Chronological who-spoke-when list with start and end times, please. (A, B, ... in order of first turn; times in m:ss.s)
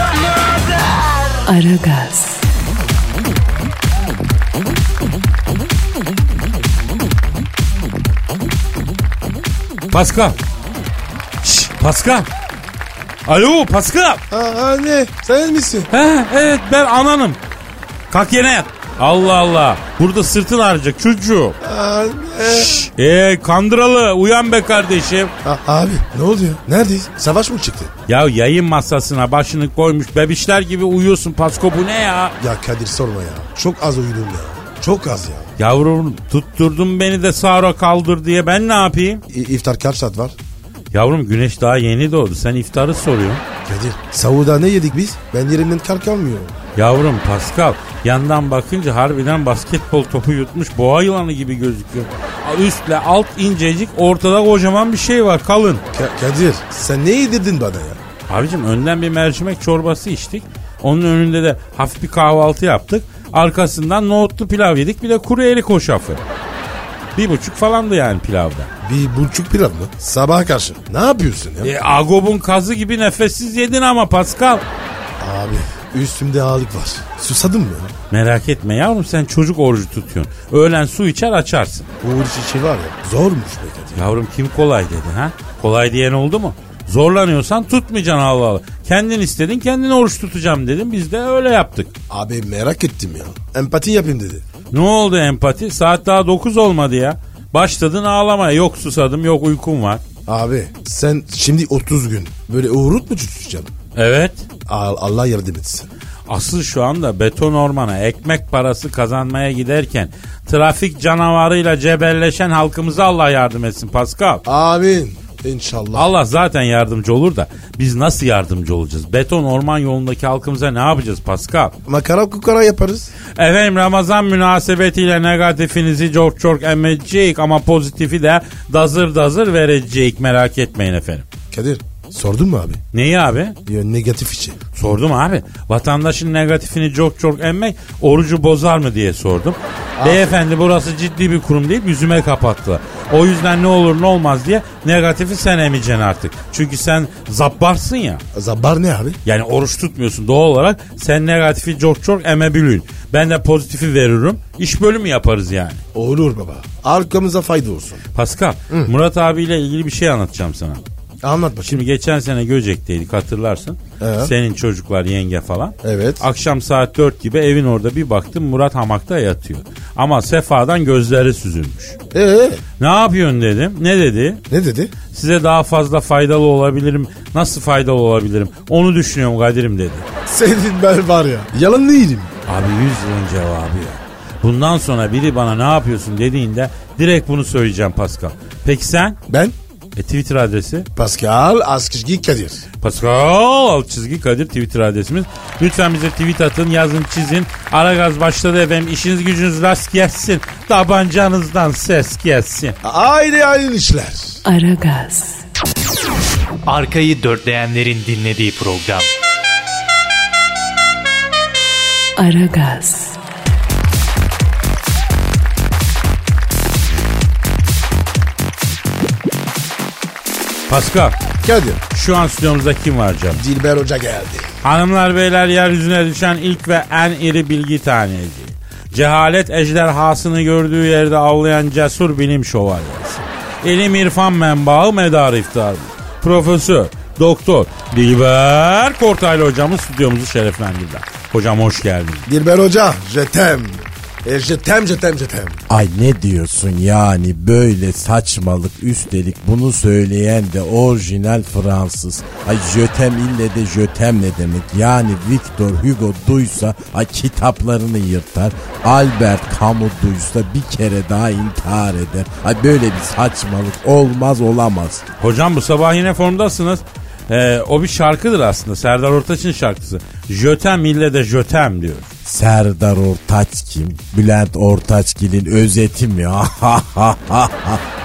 0:01.5-0:02.4 A
0:09.9-0:10.4 B
0:11.4-0:12.3 B
0:13.3-0:14.2 B
0:14.3-0:15.9 C
0:15.9-0:17.4 B
0:18.1-0:21.6 B
0:21.6-0:22.9 C
0:22.4-0:25.3 B
0:25.4-0:27.9 C
0:28.1-0:32.4 B
0:32.4-0:35.5 C
0:35.6-0:39.2 B
0:39.3-0:40.4 C
0:40.9-0:43.4 B
0:43.7-0:46.5 C
0:46.8-0:55.8 B
0:55.9-0:58.0 C
0:58.3-1:06.2 B
1:07.2-1:08.7 B
1:08.8-1:11.7 C
1:11.6-1:14.6 B
1:15.2-1:17.9 C
1:18.1-1:21.9 B
1:22.0-1:24.0 C
1:24.0-1:31.9 B
1:32.1-1:34.4 C
1:34.7-1:40.0 B
1:40.3-1:43.7 C
1:44.0-1:44.4 B
1:44.7-1:45.9 C
1:46.3-1:54.4 B
1:54.5-1:56.1 C
1:56.0-2:01.7 B
2:01.9-2:03.1 C
2:03.4-2:11.3 B
2:11.5-2:12.8 C
2:12.9-2:13.6 B
2:13.7-2:14.6 C
2:14.7-2:28.2 B
2:20.0-2:20.4 C
2:28.3-2:29.2 C
2:29.2-2:35.8 B
2:35.9-2:38.0 C
2:38.2-2:40.8 B
2:41.2-2:41.8 C
2:41.6-2:52.0 B
2:44.0-2:44.3 C
2:45.8-2:46.2 C
2:52.1-2:52.6 C
2:52.8-2:54.4 B
2:54.5-2:54.9 C
2:55.1-3:00.1 B
3:00.3-3:02.3 C
3:02.5-3:09.2 B
3:09.3-3:09.5 C
3:10.0-3:10.9 B
3:11.0-3:12.6 C
3:12.8-3:22.8 B
3:22.8-3:24.4 C
3:24.4-3:25.4 A
3:26.7-3:29.1 D
3:32.2-3:33.2 A
3:40.7-3:41.2 B
3:41.4-3:41.8 C
3:41.9-3:43.4 B
3:43.4-3:44.5 C
3:44.6-4:02.3 B
4:02.3-4:05.6 C
4:05.7-4:25.0 E
4:25.2-4:32.1 B
4:32.2-4:37.8 E